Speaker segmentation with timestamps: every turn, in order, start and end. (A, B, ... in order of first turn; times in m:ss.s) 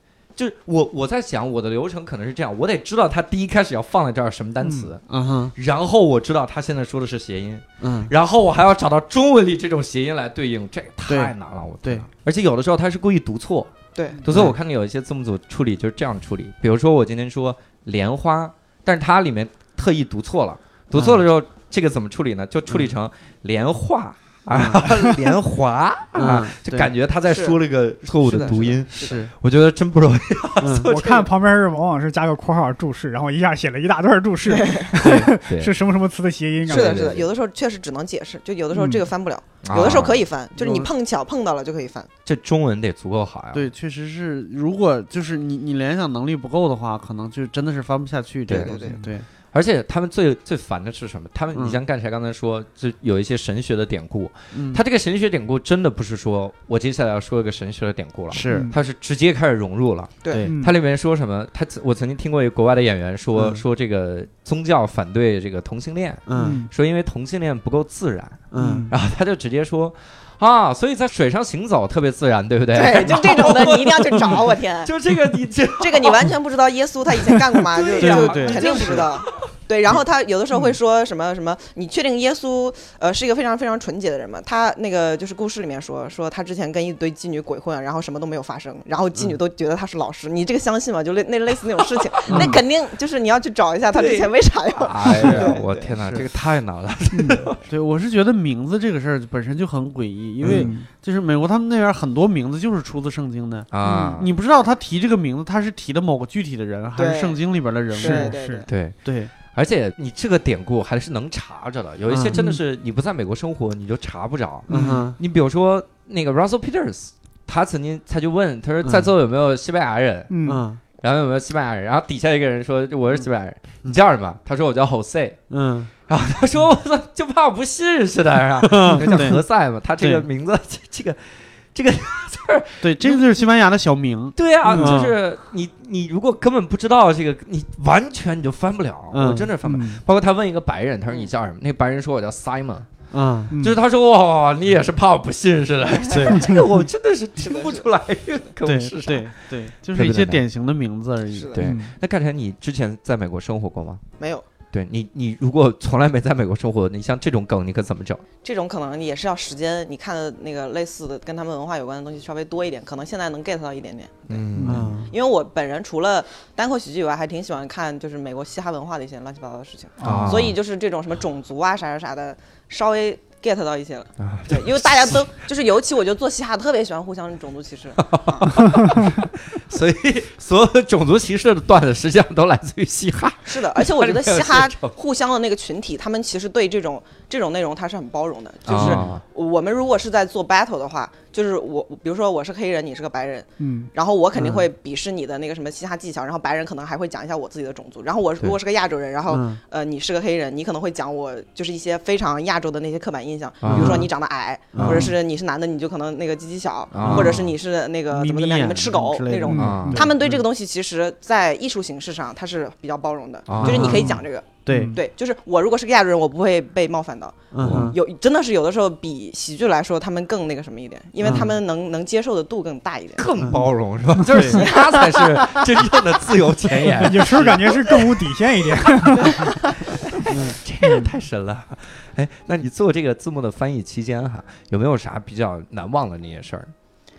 0:00.4-0:05.0 A
0:04.6-0:04.9 B
0:05.1-0:05.5 C
0:05.5-0:31.3 A
0:07.8-0:08.1 C
0:11.1-0:12.1 C
0:14.3-0:14.6 C
0:20.9-0:21.2 C
0:24.5-0:24.9 C
0:24.9-0:25.2 B
0:26.1-0:26.9 C
0:27.3-0:27.6 D
0:28.2-0:29.2 D
0:28.3-0:29.3 C
0:30.6-0:30.9 C
0:30.9-0:37.2 B
0:34.5-0:35.0 D
0:35.0-0:35.8 A
0:35.0-0:35.3 C
0:36.7-0:37.3 A
0:36.7-0:42.1 D
0:38.7-0:39.0 B
0:39.6-0:40.3 A
0:40.6-0:40.9 C
0:42.2-0:43.7 A
0:43.5-0:49.3 C
0:48.5-0:48.8 A
0:48.5-0:49.0 D
0:49.5-1:16.3 A
0:51.5-0:51.8 C
0:54.5-0:54.8 C
0:58.3-0:58.7 C
0:58.5-0:58.8 B
1:00.5-1:00.7 B
1:03.4-1:03.6 C
1:06.3-1:06.6 C
1:06.4-1:06.7 B
1:08.5-1:08.9 C
1:08.6-1:08.9 B
1:12.7-1:14.9 D
1:15.8-1:35.9 D
1:17.7-1:19.4 A
1:18.0-1:19.1 C
1:32.3-1:32.6 C
1:32.3-1:32.6 B
1:33.9-1:37.6 A
1:35.2-1:35.5 B
1:37.1-1:37.5 B
1:37.7-1:48.3 C
1:40.4-1:40.7 A
1:40.4-1:40.9 B
1:43.7-1:44.3 A
1:43.8-1:44.2 B
1:47.0-1:47.4 D
1:47.9-1:48.7 D
1:48.0-1:48.6 B
1:48.7-2:00.4 A
1:49.0-1:49.3 C
1:52.1-1:52.6 C
1:54.7-1:55.2 C
1:54.7-1:55.0 B
1:58.8-1:59.1 C
2:00.3-2:00.6 B
2:00.4-2:00.8 C
2:01.0-2:05.4 A
2:05.5-2:05.9 C
2:06.1-2:13.3 A
2:08.6-2:09.4 C
2:10.0-2:10.3 C
2:12.8-2:15.2 C
2:14.4-2:22.9 A
2:14.7-2:15.0 B
2:19.1-2:19.5 C
2:19.6-2:20.0 B
2:23.1-2:23.6 C
2:23.5-2:23.8 B
2:23.6-2:29.3 A
2:26.1-2:26.7 C
2:26.3-2:26.6 B
2:27.4-2:27.8 D
2:28.6-2:31.6 C
2:29.9-2:30.4 A
2:31.5-2:34.0 A
2:31.6-2:31.9 B
2:34.2-2:34.4 D
2:34.7-2:38.2 A
2:38.4-2:44.4 D
2:44.3-2:44.9 A
2:44.6-2:44.9 B
2:44.6-2:45.1 C
2:45.1-2:58.6 D
2:50.0-2:50.4 B
2:50.0-2:50.6 A
2:54.2-2:55.3 A
2:58.0-3:05.0 A
3:03.4-3:43.3 D
3:08.7-3:09.2 A
3:08.8-3:09.0 C
3:13.6-3:13.9 B
3:14.4-3:14.7 C
3:19.3-3:19.6 C
3:23.6-3:24.1 A
3:23.6-3:24.1 C
3:24.7-3:25.1 C
3:26.9-3:27.5 A
3:27.0-3:27.4 C
3:28.1-3:30.4 C
3:29.5-3:30.1 B
3:29.5-3:30.0 A
3:33.5-3:34.1 A
3:33.6-3:35.0 C
3:34.7-3:35.0 B
3:37.5-3:38.0 C
3:37.6-3:37.9 A
3:41.2-3:41.5 C
3:43.2-3:48.4 A
3:43.4-3:43.7 C
3:44.3-3:44.7 C
3:44.5-3:45.9 D
3:46.9-3:49.6 B
3:49.2-3:50.2 D
3:50.3-3:56.7 A
3:50.3-3:50.6 C
3:50.8-3:51.1 B